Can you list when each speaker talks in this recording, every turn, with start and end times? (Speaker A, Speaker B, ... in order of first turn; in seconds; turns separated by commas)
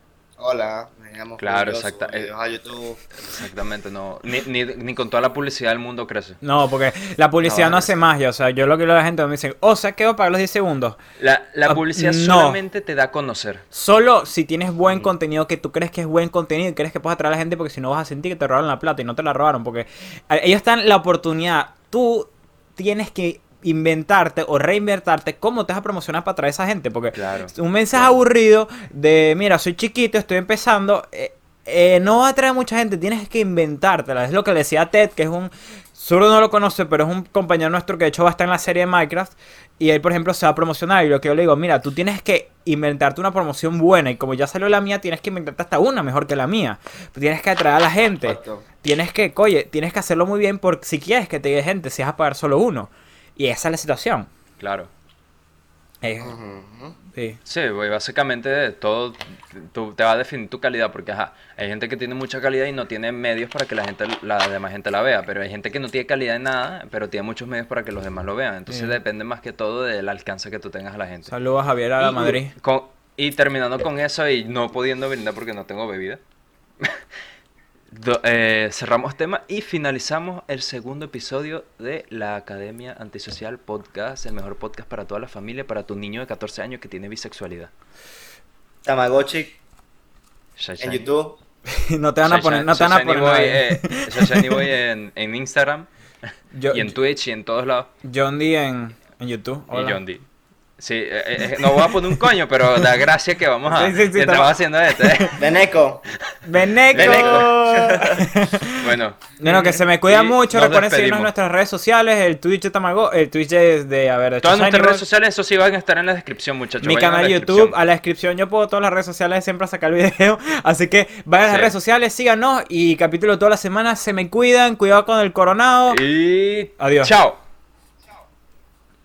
Speaker A: 0.4-3.0, Speaker B: 1.4-2.3, Speaker B: 3.1-6.4, Speaker C: 6.4-11.0, Speaker B: 7.4-7.9, Speaker B: 11.2-13.7, Speaker C: 11.7-12.6, Speaker C: 13.7-54.3, Speaker B: 27.1-28.2, Speaker A: 48.2-48.6, Speaker B: 54.6-54.9, Speaker C: 56.0-56.4, Speaker A: 56.2-57.0, Speaker C: 57.1-57.4, Speaker B: 57.5-71.3, Speaker C: 68.7-69.0, Speaker C: 71.3-72.5, Speaker B: 72.0-76.2, Speaker B: 77.9-87.7, Speaker A: 88.8-89.6, Speaker B: 90.6-91.1, Speaker A: 90.8-91.4, Speaker C: 91.7-94.7, Speaker B: 92.2-97.9, Speaker C: 96.5-96.9, Speaker C: 98.0-100.0, Speaker B: 99.7-100.2, Speaker B: 100.8-105.5, Speaker C: 101.6-102.1, Speaker C: 103.7-105.4, Speaker A: 105.3-106.0, Speaker C: 106.4-115.0, Speaker B: 106.9-107.5, Speaker A: 106.9-108.3, Speaker B: 108.7-111.3, Speaker B: 114.4-117.8, Speaker C: 116.8-126.0, Speaker B: 121.4-121.7, Speaker B: 125.9-127.4, Speaker C: 126.8-127.1